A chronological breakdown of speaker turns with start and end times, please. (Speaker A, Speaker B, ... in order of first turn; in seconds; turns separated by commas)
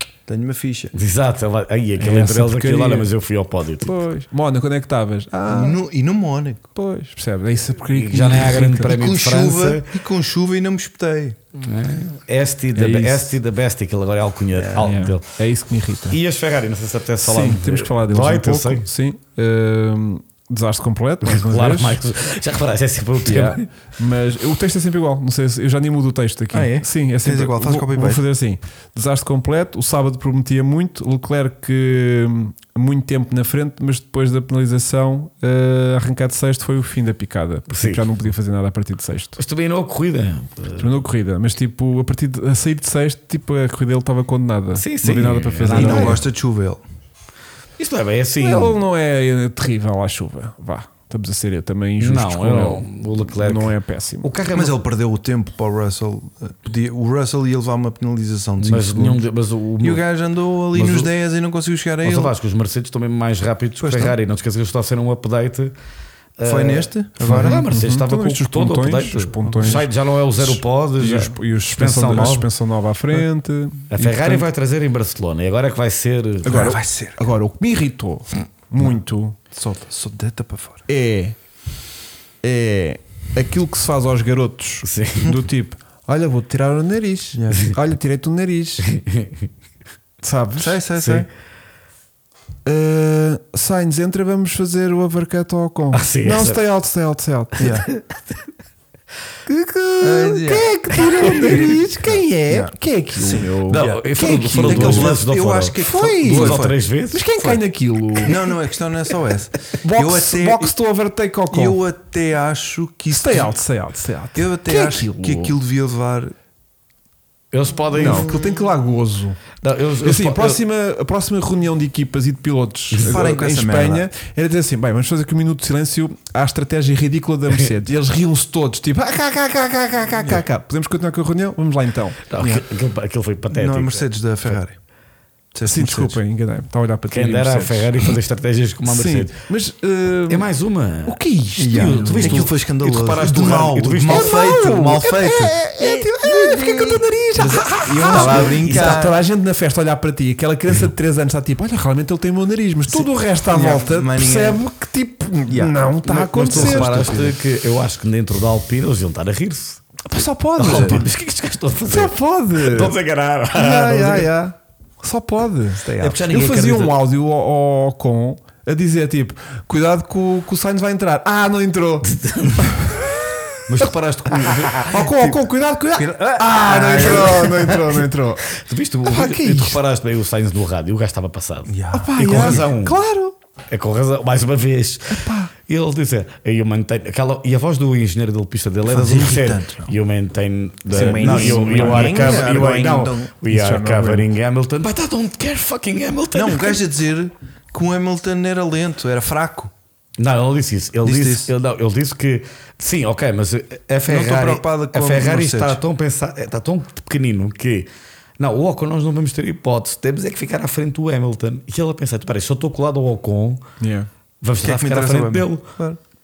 Speaker A: 0.3-0.9, Speaker B: 0.9-4.0, Speaker C: 2.0-3.1, Speaker C: 3.8-5.8, Speaker A: 5.5-6.7, Speaker C: 6.8-9.0, Speaker B: 7.9-9.9, Speaker A: 8.8-11.4, Speaker B: 11.6-15.4, Speaker C: 12.8-13.4, Speaker A: 14.5-14.9, Speaker C: 14.8-16.2, Speaker B: 16.1-18.9, Speaker C: 17.2-22.0, Speaker B: 21.2-23.7, Speaker C: 23.2-39.4, Speaker A: 26.5-28.2, Speaker B: 37.7-38.1, Speaker B: 39.4-40.9, Speaker C: 40.8-46.2, Speaker B: 44.8-46.2, Speaker A: 45.7-46.8, Speaker B: 47.8-48.8, Speaker C: 48.4-54.3, Speaker B: 52.0-54.8, Speaker A: 54.5-59.3, Speaker B: 58.6-60.0, Speaker A: 59.8-62.3, Speaker B: 60.7-61.1, Speaker B: 62.0-65.7, Speaker A: 63.8-64.2, Speaker B: 66.4-72.5, Speaker A: 66.5-67.7, Speaker C: 67.2-74.5, Speaker B: 73.9-76.5, Speaker C: 76.5-79.5, Speaker A: 76.5-77.2, Speaker A: 79.5-80.9, Speaker C: 80.9-81.4, Speaker C: 82.4-89.0, Speaker B: 84.8-85.3, Speaker A: 87.3-87.8, Speaker B: 88.9-89.3, Speaker C: 90.2-91.2, Speaker A: 90.6-91.3, Speaker C: 92.7-97.7, Speaker B: 95.9-96.6, Speaker A: 97.6-97.9, Speaker B: 97.6-98.0, Speaker C: 99.5-105.2, Speaker A: 100.0-104.1, Speaker B: 101.2-101.7, Speaker B: 103.7-107.2, Speaker A: 104.6-106.8, Speaker C: 105.8-108.4, Speaker A: 108.2-110.7, Speaker C: 109.8-111.8, Speaker A: 111.5-113.6, Speaker C: 113.1-115.5, Speaker A: 114.3-116.3, Speaker B: 117.5-118.4, Speaker A: 118.0-118.6, Speaker C: 118.0-119.4, Speaker B: 119.6-120.6, Speaker C: 120.0-132.2, Speaker B: 122.9-123.2, Speaker A: 123.0-124.1, Speaker B: 132.3-134.1, Speaker A: 132.4-132.7, Speaker A: 133.5-134.8, Speaker A: 135.5-136.2, Speaker C: 135.6-138.1, Speaker B: 137.1-139.4, Speaker C: 138.9-140.5, Speaker B: 140.3-144.5, Speaker C: 141.1-142.5, Speaker A: 141.6-149.2, Speaker C: 144.1-157.3, Speaker B: 147.4-149.0, Speaker A: 153.5-154.6, Speaker A: 155.5-155.8, Speaker B: 156.0-160.0, Speaker A: 156.5-157.2, Speaker C: 160.1-161.1, Speaker B: 160.6-164.3, Speaker C: 161.9-163.0, Speaker C: 163.5-172.1, Speaker A: 165.8-167.0, Speaker B: 166.0-166.3, Speaker B: 172.0-172.8, Speaker C: 172.8-179.8, Speaker B: 173.7-175.0, Speaker A: 174.9-175.4, Speaker A: 175.9-177.4, Speaker B: 176.6-183.0, Speaker A: 181.7-182.7, Speaker C: 181.9-183.3, Speaker B: 183.7-196.8, Speaker C: 185.1-185.5, Speaker A: 188.8-189.9, Speaker C: 190.9-194.3, Speaker A: 190.9-193.3, Speaker A: 196.3-199.7, Speaker B: 200.2-213.6, Speaker A: 201.0-201.5, Speaker A: 204.1-205.8, Speaker C: 213.8-214.1, Speaker B: 214.4-215.6, Speaker A: 214.6-216.0